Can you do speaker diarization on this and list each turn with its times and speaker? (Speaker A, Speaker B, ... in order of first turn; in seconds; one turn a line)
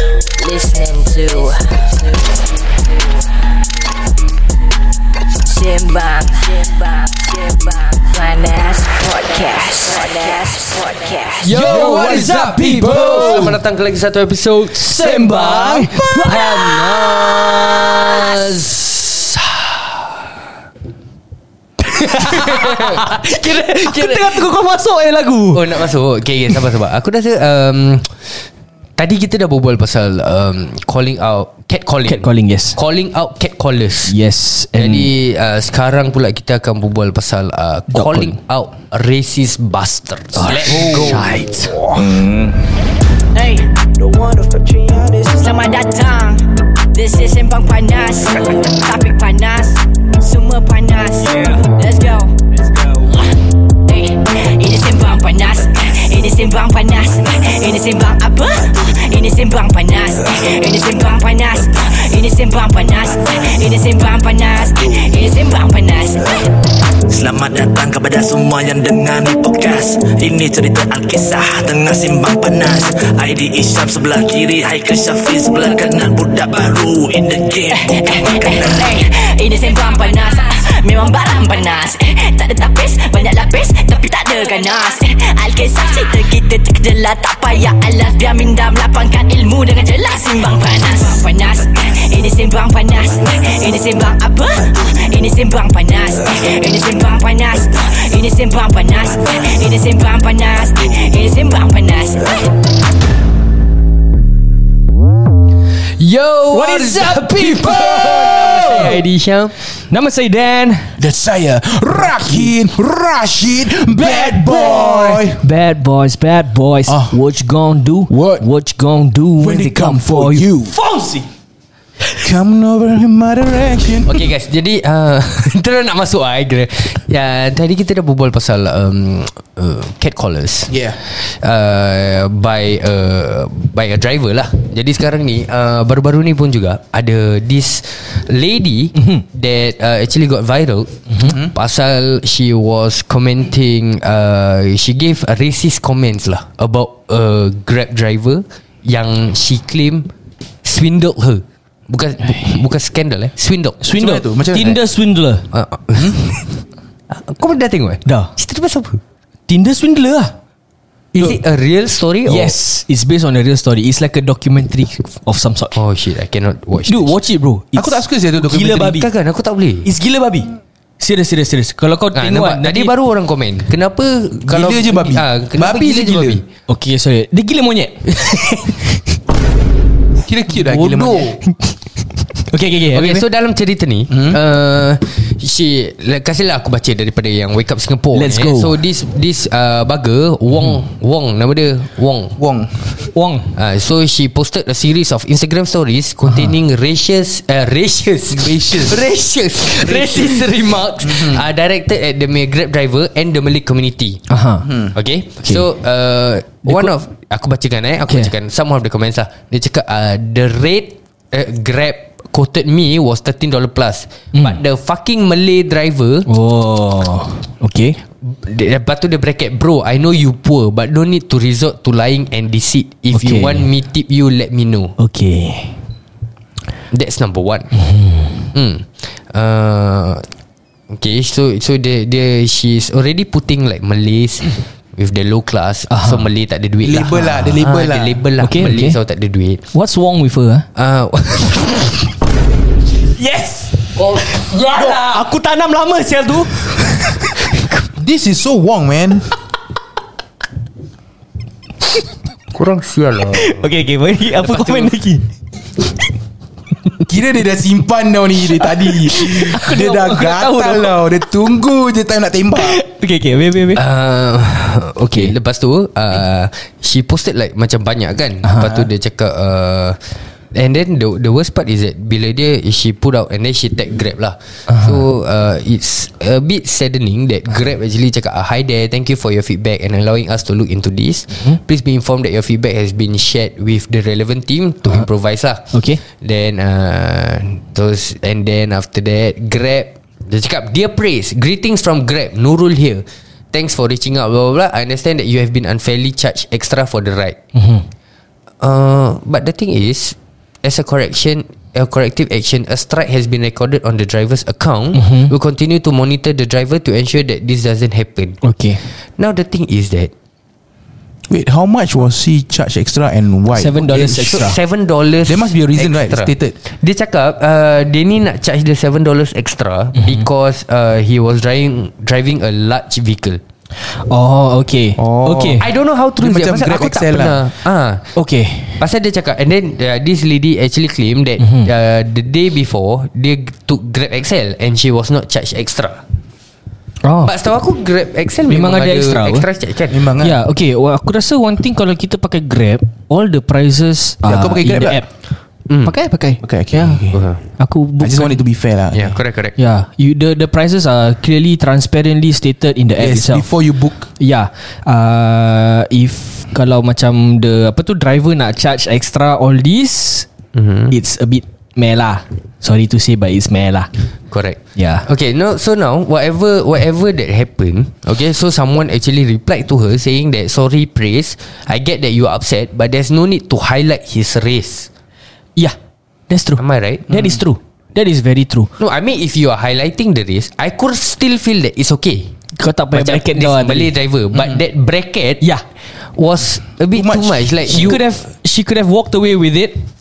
Speaker A: 0.3-2.4
Speaker A: 5.4-11.5
Speaker B: 11.4-19.9
Speaker C: 11.5-13.6
Speaker D: 11.5-13.5
Speaker D: 14.7-16.9
Speaker C: 15.3-16.4
Speaker B: 21.9-24.4
Speaker D: 22.0-25.9
Speaker B: 25.5-28.1
Speaker B: 29.0-34.1
Speaker D: 32.0-32.8
Speaker D: 34.1-35.1
Speaker B: 34.7-41.7
Speaker D: 37.9-38.4
Speaker D: 40.3-42.1
Speaker C: 40.6-41.4
Speaker C: 41.9-42.6
Speaker A: 43.3-52.3
Speaker A: 53.8-66.5
Speaker E: 67.1-78.9
Speaker A: 77.7-102.5
Speaker B: 106.0-109.5
Speaker D: 106.5-109.0
Speaker D: 109.9-111.0
Speaker C: 111.0-115.4
Speaker D: 113.9-121.2
Speaker C: 116.9-117.2
Speaker C: 118.1-118.5
Speaker C: 119.4-120.8
Speaker C: 122.2-124.2
Speaker B: 124.0-150.1
Speaker C: 130.7-131.0
Speaker D: 138.9-139.2
Speaker D: 141.1-141.3
Speaker B: 150.6-153.8
Speaker D: 153.8-155.4
Speaker C: 153.9-154.8
Speaker B: 155.5-156.6
Speaker B: 157.1-159.0
Speaker D: 158.0-158.3
Speaker D: 159.5-160.3
Speaker B: 161.1-162.5
Speaker D: 162.2-165.7
Speaker B: 165.7-167.2
Speaker D: 166.8-169.1
Speaker C: 167.7-169.0
Speaker B: 168.7-169.9
Speaker D: 169.8-172.9
Speaker B: 172.1-176.4
Speaker C: 174.4-176.4
Speaker D: 176.7-179.0
Speaker C: 180.2-181.4
Speaker B: 180.6-181.3
Speaker D: 181.4-181.8
Speaker D: 182.3-183.2
Speaker B: 182.9-192.4
Speaker C: 184.1-184.4
Speaker D: 188.1-188.8
Speaker C: 192.4-192.8
Speaker D: 193.1-193.5
Speaker B: 193.5-204.2
Speaker C: 198.3-199.1
Speaker C: 199.6-200.4
Speaker C: 201.0-201.4
Speaker D: 204.3-204.7
Speaker C: 204.7-204.9
Speaker B: 204.8-216.3
Speaker D: 206.7-206.9
Speaker D: 216.2-218.0
Speaker B: 218.2-224.9
Speaker D: 223.1-223.7
Speaker D: 225.0-225.8
Speaker B: 226.9-227.7
Speaker D: 227.8-228.5
Speaker B: 228.5-230.3
Speaker B: 230.9-239.6
Speaker D: 235.9-236.2
Speaker C: 236.8-238.2
Speaker D: 238.4-239.0
Speaker D: 239.7-240.7
Speaker B: 240.7-242.0
Speaker D: 243.2-243.6
Speaker B: 243.8-245.3
Speaker D: 244.8-247.3
Speaker C: 247.9-249.3
Speaker B: 252.5-253.7
Speaker D: 253.3-255.2
Speaker B: 254.4-254.9
Speaker C: 257.1-262.8
Speaker D: 259.1-261.0
Speaker D: 262.5-263.8
Speaker B: 263.8-270.0
Speaker D: 268.4-268.9
Speaker B: 270.5-297.4
Speaker D: 274.7-275.0
Speaker D: 285.7-286.0
Speaker D: 297.5-297.8
Speaker B: 298.6-308.4
Speaker D: 304.9-305.3
Speaker D: 308.4-308.8
Speaker B: 309.2-310.1
Speaker C: 311.3-313.8
Speaker D: 313.5-314.6
Speaker B: 313.8-323.4
Speaker C: 315.2-316.6
Speaker D: 323.8-325.6
Speaker C: 325.0-325.7
Speaker B: 325.6-328.1
Speaker C: 326.2-327.4
Speaker D: 328.1-328.8
Speaker B: 328.8-336.0
Speaker D: 331.4-331.7
Speaker D: 337.0-337.3
Speaker B: 337.2-340.0
Speaker D: 338.5-339.4
Speaker C: 339.9-340.4
Speaker D: 340.2-345.1
Speaker C: 344.2-345.0
Speaker B: 345.7-345.9
Speaker D: 345.8-348.4
Speaker C: 346.4-347.1
Speaker B: 347.1-347.4
Speaker C: 348.0-349.1
Speaker B: 348.9-349.6
Speaker D: 349.6-353.5
Speaker C: 353.0-354.1
Speaker D: 354.2-360.3
Speaker B: 360.5-360.9
Speaker D: 360.9-363.9
Speaker B: 364.3-374.9
Speaker D: 364.8-365.1
Speaker D: 376.3-378.7
Speaker B: 376.6-377.1
Speaker B: 378.8-382.3
Speaker D: 382.6-384.6
Speaker B: 382.9-385.4
Speaker B: 386.1-388.0
Speaker C: 386.9-387.9
Speaker D: 387.7-389.8